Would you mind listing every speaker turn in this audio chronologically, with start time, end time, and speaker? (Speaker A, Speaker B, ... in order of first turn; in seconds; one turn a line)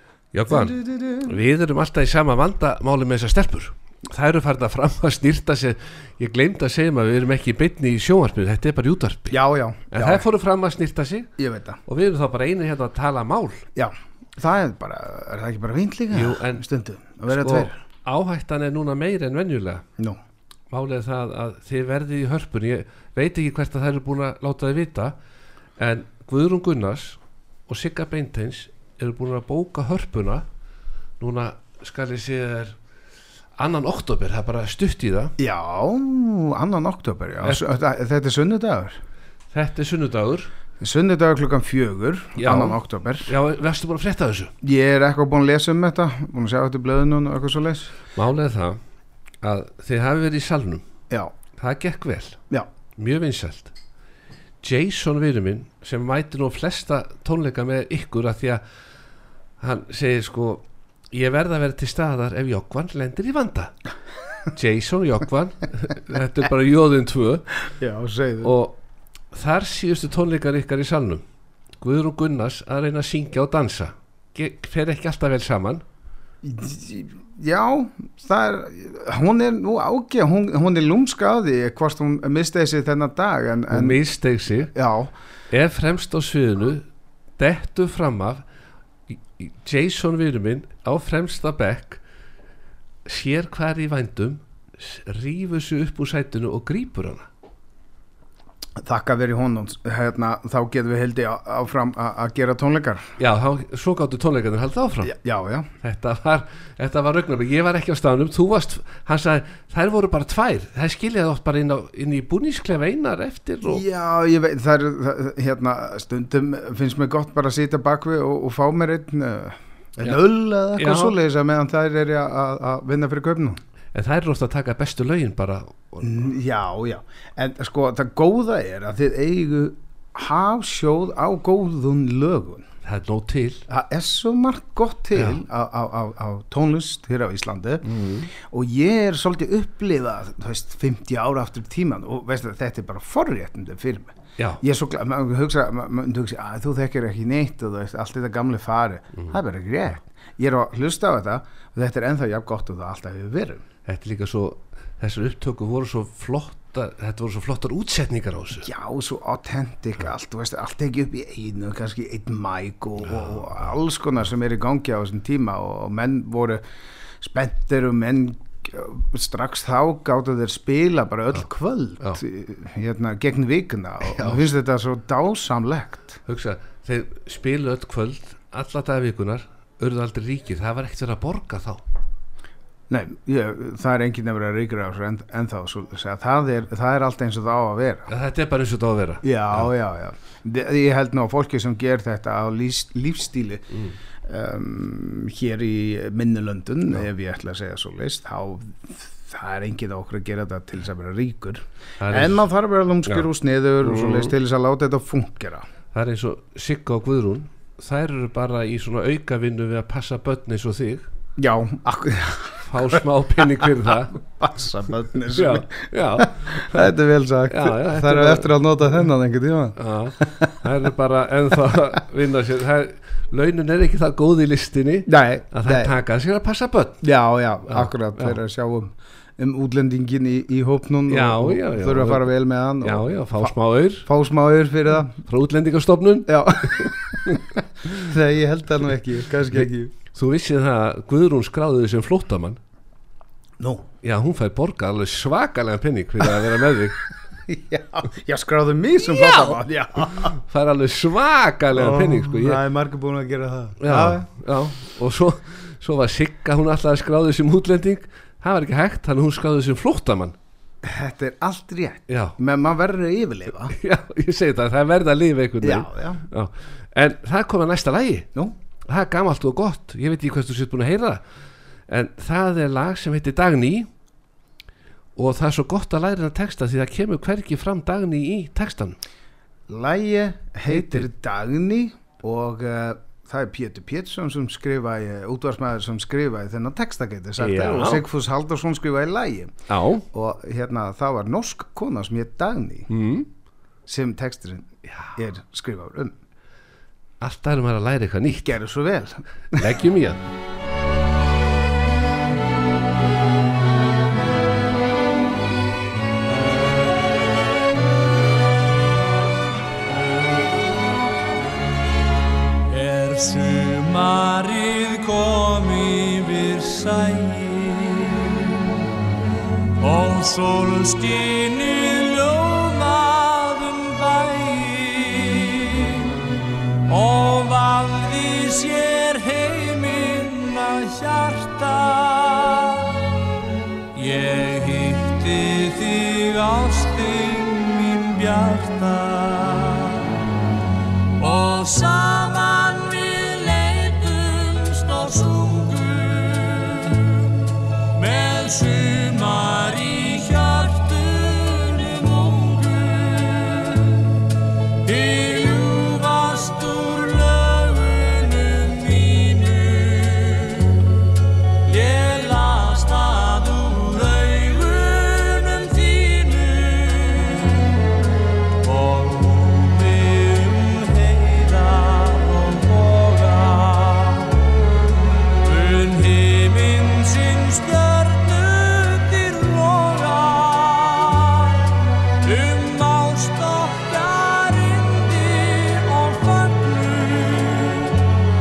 Speaker A: 0.3-9.4
Speaker B: 0.5-1.3
Speaker B: 9.3-10.2
Speaker A: 9.9-11.3
Speaker B: 11.4-11.8
Speaker A: 11.8-13.6
Speaker B: 13.7-17.8
Speaker A: 16.1-16.6
Speaker A: 17.3-19.8
Speaker A: 20.7-25.1
Speaker A: 25.8-30.4
Speaker A: 31.2-32.8
Speaker A: 33.6-35.3
Speaker B: 35.4-39.0
Speaker A: 39.5-40.5
Speaker B: 40.8-43.3
Speaker A: 42.4-44.5
Speaker B: 44.6-47.9
Speaker A: 48.1-48.8
Speaker A: 49.4-50.8
Speaker A: 51.6-52.4
Speaker A: 53.0-53.7
Speaker A: 54.6-58.6
Speaker A: 59.6-63.7
Speaker A: 64.5-67.5
Speaker B: 67.8-68.5
Speaker A: 68.4-68.8
Speaker A: 69.3-71.2
Speaker A: 71.8-75.8
Speaker B: 76.4-84.0
Speaker A: 83.7-84.7
Speaker B: 84.7-85.1
Speaker A: 85.5-86.8
Speaker A: 87.4-88.4
Speaker A: 89.1-92.0
Speaker A: 93.0-97.3
Speaker B: 98.8-103.1
Speaker A: 103.2-105.1
Speaker B: 105.0-105.7
Speaker A: 105.8-113.8
Speaker B: 113.6-123.6
Speaker A: 120.8-121.2
Speaker A: 123.9-126.2
Speaker B: 126.0-132.7
Speaker A: 132.8-133.6
Speaker B: 133.7-153.6
Speaker A: 137.8-138.3
Speaker A: 153.8-158.7
Speaker B: 158.6-166.6
Speaker B: 167.2-176.2
Speaker A: 174.1-174.5
Speaker A: 176.2-181.8
Speaker B: 182.9-188.1
Speaker A: 188.1-189.7
Speaker B: 189.2-193.7
Speaker B: 194.2-205.6
Speaker A: 202.0-202.4
Speaker A: 203.8-204.3
Speaker A: 205.9-211.1
Speaker B: 211.4-220.6
Speaker A: 212.7-214.2
Speaker A: 215.3-216.9
Speaker A: 217.5-218.5
Speaker A: 219.8-227.0
Speaker B: 225.1-225.9
Speaker B: 227.0-235.2
Speaker A: 227.7-228.3
Speaker A: 231.1-232.3
Speaker A: 232.8-234.1
Speaker A: 235.2-237.4
Speaker B: 236.3-239.9
Speaker A: 239.5-242.6
Speaker B: 243.6-243.8
Speaker A: 244.0-247.0
Speaker B: 247.5-250.3
Speaker A: 249.2-249.5
Speaker A: 250.2-252.6
Speaker B: 251.7-254.3
Speaker A: 253.8-260.4
Speaker B: 260.8-263.7
Speaker A: 262.1-262.4
Speaker A: 263.7-268.3
Speaker B: 265.6-266.2
Speaker A: 268.9-271.2
Speaker A: 271.9-273.9
Speaker A: 275.1-279.0
Speaker B: 279.7-289.6
Speaker A: 280.7-281.1
Speaker A: 287.4-288.0
Speaker A: 289.7-290.0
Speaker B: 290.1-292.9
Speaker A: 292.9-293.3
Speaker B: 293.9-296.1
Speaker A: 297.2-298.6
Speaker B: 298.4-299.7
Speaker A: 299.5-300.2
Speaker C: 312.7-318.3
Speaker C: 319.8-326.1
Speaker C: 326.9-332.9
Speaker C: 333.9-340.1
Speaker C: 341.2-354.1
Speaker C: 354.8-361.0
Speaker C: 361.6-367.6
Speaker C: 368.6-374.2
Speaker C: 375.4-381.6
Speaker C: 382.2-388.0